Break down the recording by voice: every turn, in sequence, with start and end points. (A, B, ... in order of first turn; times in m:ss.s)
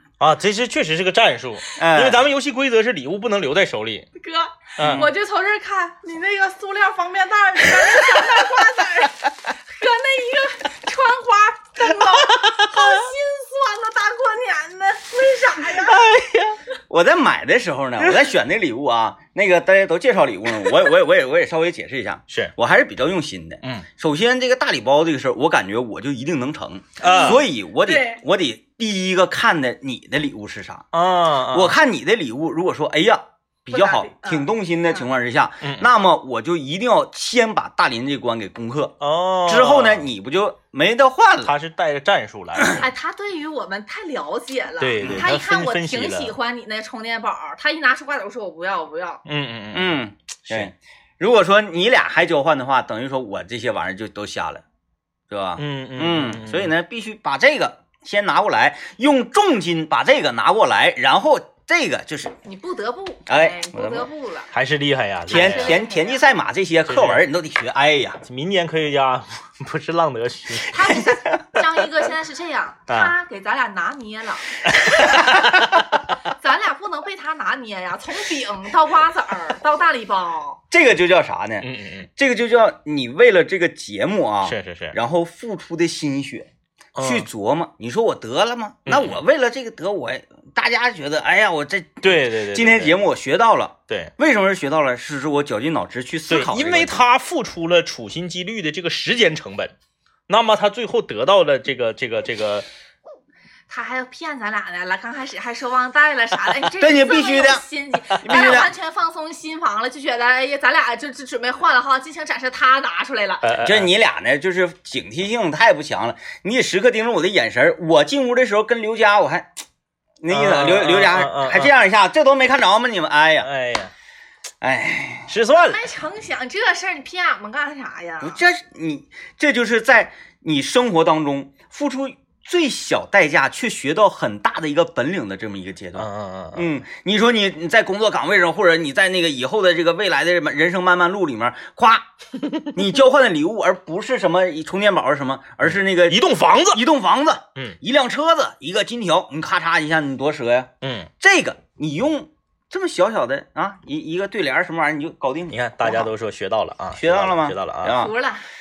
0:00.2-0:04.1 A
0:01.8-0:02.2 B
0:04.2-0:16.1 C
0:04.8-0:05.1 A
0:04.8-0:05.1 B
0:12.1-0:13.0 A
0:15.7-0:16.6 A
0:16.9-0:30.9 B
0:27.0-0:27.4 A
0:27.0-0:28.2 C
0:30.9-0:31.8 A
0:31.5-0:41.5 B
0:33.7-0:35.0 C
0:35.6-0:35.9 A
0:39.0-0:40.1 A
0:41.4-0:42.9 A
0:42.7-0:49.2 C
0:44.8-0:46.4 A
0:45.0-0:45.3 B
0:49.3-0:50.7 A
0:49.7-0:54.6 B
0:55.3-1:02.3 B
0:55.6-0:56.7 A
1:02.4-1:04.5 C
1:03.3-1:04.1 B
1:04.5-1:05.8 A
1:05.3-1:08.2 B
1:05.3-1:06.2 C
1:06.9-1:07.2 A
1:08.2-1:10.8 A
1:10.7-1:14.6 C
1:14.6-1:15.8 A
1:16.4-1:20.6 C
1:20.7-1:37.0 B
1:21.6-1:22.1 A
1:24.4-1:25.0 A
1:27.0-1:27.3 A
1:28.9-1:29.2 A
1:32.0-1:33.0 A
1:36.3-1:39.7 A
1:40.3-1:42.7 A
1:43.7-1:53.4 C
1:46.7-1:48.7 B
1:48.3-1:48.6 A
1:53.4-1:53.9 A
1:53.6-1:59.5 B
2:00.2-2:03.5 B
2:00.3-2:01.7 A
2:03.4-2:03.9 A
2:04.6-2:05.3 B
2:05.3-2:05.8 A
2:05.7-2:08.4 C
2:08.2-2:22.1 B
2:16.0-2:16.7 A
2:22.7-2:36.1 B
2:25.7-2:26.8 A
2:30.8-2:31.1 A
2:35.5-2:38.0 A
2:37.0-2:38.2 B
2:37.9-2:38.4 C